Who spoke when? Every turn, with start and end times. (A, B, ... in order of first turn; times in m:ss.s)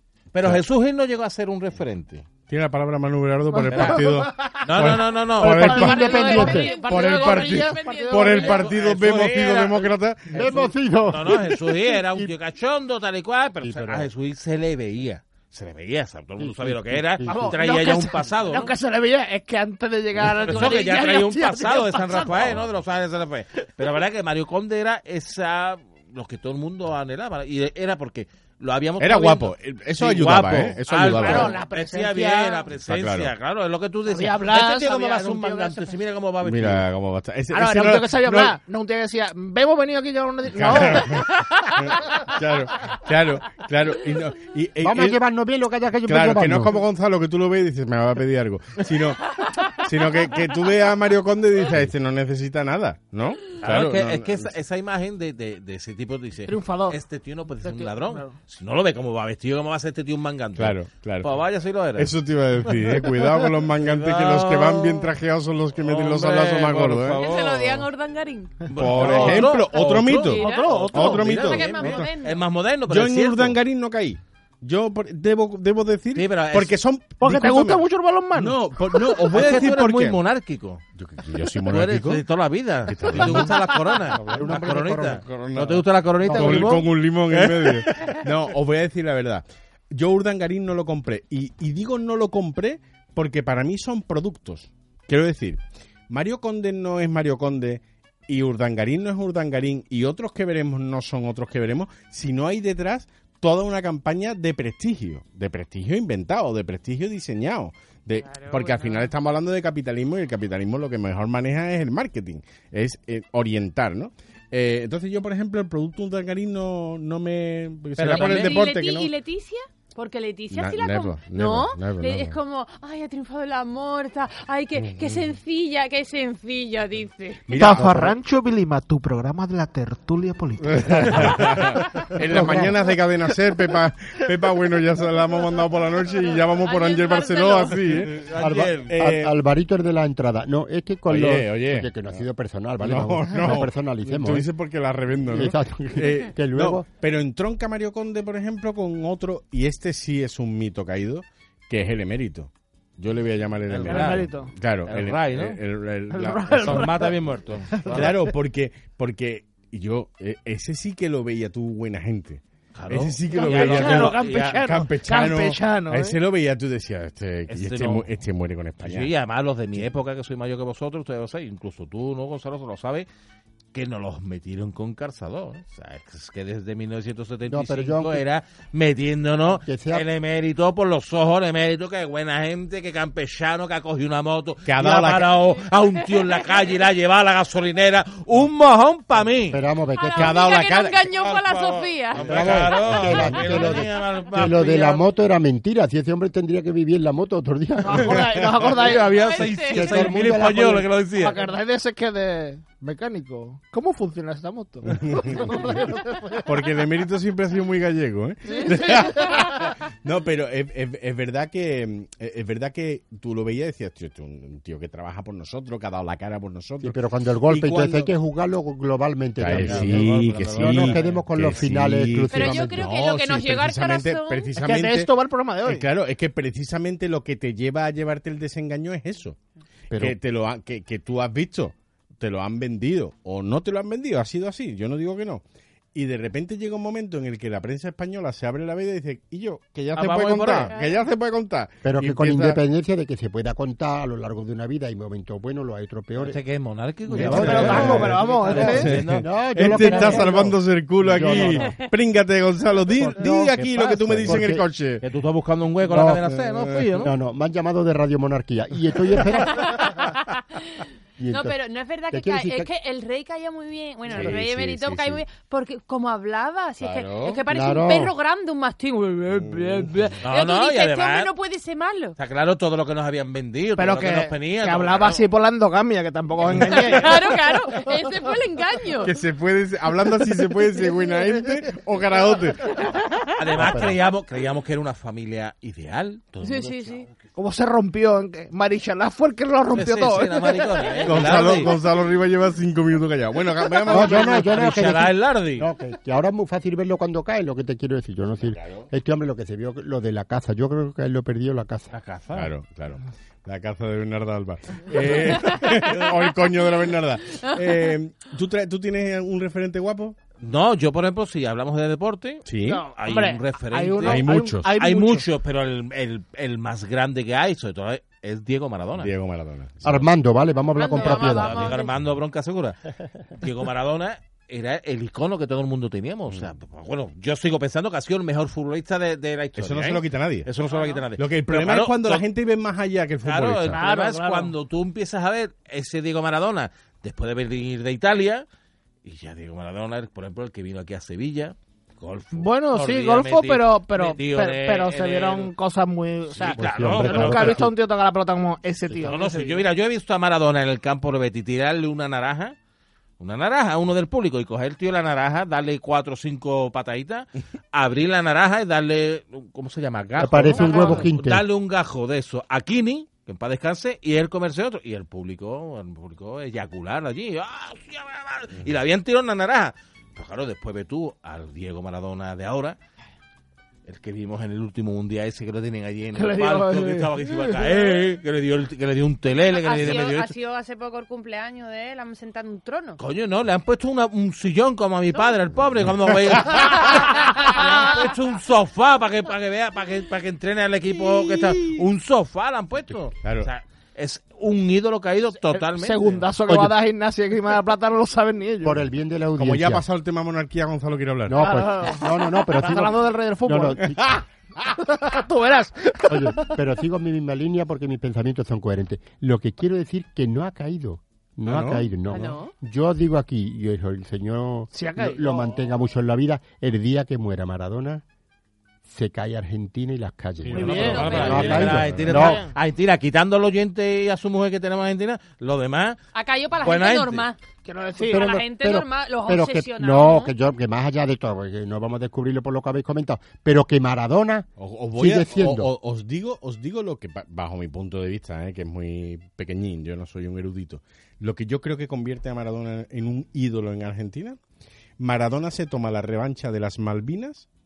0:00.3-0:02.2 A
0:02.5-0:10.5 B
0:03.5-0:04.5 C
0:03.7-0:04.0 A
0:04.6-0:05.6 A
0:05.4-0:06.7 D
0:05.5-0:08.6 C
0:05.6-0:08.6 E
0:08.4-0:10.5 A
0:10.3-0:12.3 D
0:11.1-0:18.7 A
0:13.6-0:14.1 D
0:16.4-0:17.6 D
0:17.2-0:22.6 C
0:20.2-0:36.8 A
0:29.0-0:31.6 B
0:31.1-0:32.7 C
0:32.9-0:33.3 B
0:34.1-0:35.9 C
0:36.4-0:38.6 B
0:37.5-0:42.3 C
0:40.5-0:45.2 B
0:44.8-0:46.8 D
0:46.0-0:54.5 B
0:53.6-1:02.1 A
0:56.5-0:57.0 C
0:57.6-0:58.3 C
1:00.6-1:01.3 B
1:02.0-1:07.2 B
1:02.7-1:05.1 A
1:05.8-1:07.9 A
1:07.2-1:09.2 E
1:08.7-1:13.6 A
1:08.7-1:12.1 B
1:08.9-1:09.4 C
1:10.2-1:12.4 E
1:10.4-1:11.4 C
1:12.9-1:17.8 B
1:16.1-1:16.8 A
1:17.2-1:19.2 C
1:18.3-1:20.2 B
1:19.3-1:20.8 A
1:21.0-1:22.2 B
1:21.6-1:28.2 A
1:22.8-1:23.6 B
1:24.1-1:24.5 B
1:24.2-1:25.2 D
1:25.0-1:59.1 B
1:26.2-1:26.8 D
1:48.2-1:49.1 E
1:58.0-1:58.6 A
1:58.1-2:07.5 E
2:00.5-2:02.4 B
2:04.8-2:05.2 B
2:07.5-2:08.1 B
2:07.5-2:12.1 C
2:07.7-2:08.1 D
2:10.6-2:18.3 B
2:12.3-2:12.8 D
2:16.4-2:18.0 E
2:18.0-2:18.9 A
2:18.3-2:24.5 D
2:18.8-2:19.3 B
2:21.1-2:22.2 B
2:22.8-2:37.0 B
2:25.2-2:26.8 D
2:33.7-2:34.3 A
2:33.9-2:34.5 C
2:34.8-2:35.6 A
2:36.1-2:37.2 C
2:36.6-2:38.1 A
2:37.7-2:38.2 C
2:37.8-2:49.1 B
2:42.7-2:44.7 A
2:43.3-2:46.2 C
2:47.5-2:48.0 A
2:48.8-2:53.1 A
2:53.7-3:09.6 A
2:57.5-2:58.2 D
2:59.6-3:00.0 D
3:04.6-3:05.3 B
3:09.5-3:10.4 D
3:10.0-3:12.8 E
3:10.1-3:11.3 B
3:11.2-3:15.0 A
3:12.2-3:13.7 B
3:12.2-3:18.2 D
3:17.8-3:19.5 C
3:18.0-3:18.6 B
3:18.6-3:21.4 A
3:19.1-3:20.0 E
3:19.7-3:20.9 D
3:21.2-3:26.5 C
3:24.9-3:25.6 B
3:26.4-3:38.1 B
3:28.4-3:29.4 C
3:36.8-3:42.9 D
3:39.4-3:45.1 B
3:39.5-3:41.2 A
3:42.3-3:44.5 E
3:44.6-3:45.8 C
3:45.6-3:49.4 B
3:49.9-3:50.2 D
3:49.9-3:55.4 B
3:55.9-4:02.6 B
4:00.0-4:00.7 A
4:00.7-4:01.0 E
4:01.8-4:06.4 D
4:06.2-4:10.3 A
4:07.1-4:11.7 D
4:07.1-4:15.0 B
4:07.2-4:08.9 C
4:12.9-4:14.6 D
4:13.2-4:14.4 A
4:15.0-4:17.1 A
4:15.8-4:16.2 D
4:16.3-4:16.9 B
4:17.0-4:19.8 D
4:19.5-4:32.2 E
4:21.2-4:21.6 D
4:22.1-4:22.7 D
4:24.1-4:25.2 B
4:26.8-4:27.4 B
4:27.5-4:28.1 D
4:29.3-4:30.1 B
4:30.2-4:31.3 A
4:32.2-4:35.2 A
4:33.8-4:37.2 C
4:36.5-4:36.8 A
4:36.7-4:39.2 E
4:39.0-4:42.7 B
4:42.9-4:43.2 E
4:43.4-4:47.1 A
4:43.6-4:44.0 D
4:46.4-4:47.1 E
4:47.3-4:51.3 C
4:49.7-4:51.7 A
4:51.0-4:54.6 B
4:53.9-4:55.7 A
4:53.9-5:01.9 D
5:01.9-5:02.5 A
5:02.3-5:10.2 B
5:10.4-5:19.1 A
5:12.4-5:12.8 B
5:12.6-5:15.3 C
5:14.0-5:14.8 B
5:19.0-5:20.1 B
5:19.8-5:21.6 D
5:20.7-5:21.9 E
5:21.0-5:22.8 A
5:23.4-5:32.2 A
5:29.6-5:30.5 B
5:30.7-5:31.0 E
5:31.2-5:33.8 B
5:33.2-5:38.4 A
5:33.7-5:34.5 C
5:39.0-5:45.5 A
5:42.3-5:49.6 C
5:46.3-5:47.7 A
5:46.6-5:47.7 D
5:49.0-5:52.6 A
5:53.2-6:12.8 A
6:00.2-6:01.4 D
6:00.6-6:01.0 E
6:13.8-6:20.3 A
6:16.1-6:17.8 C
6:19.5-6:23.0 E
6:23.0-6:36.2 A
6:26.8-6:28.0 E
6:30.9-6:31.8 B
6:33.2-6:33.5 B
6:35.5-6:38.8 C
6:36.5-6:36.7 D
6:38.6-6:39.8 D
6:39.4-6:41.4 B
6:41.3-6:44.2 D
6:41.4-6:44.0 C
6:44.7-6:46.6 C
6:46.1-6:58.0 D
6:51.4-6:51.9 B
6:52.1-6:52.5 E
6:54.7-6:55.6 C
6:58.8-7:02.4 D
7:00.4-7:02.2 B
7:00.5-7:02.5 C
7:00.8-7:01.6 E
7:00.8-7:06.0 A
7:06.1-7:07.4 E
7:06.6-7:07.2 A
7:07.6-7:08.4 C
7:08.1-7:10.3 E
7:08.1-7:15.7 D
7:14.6-7:24.4 B
7:25.0-7:27.5 B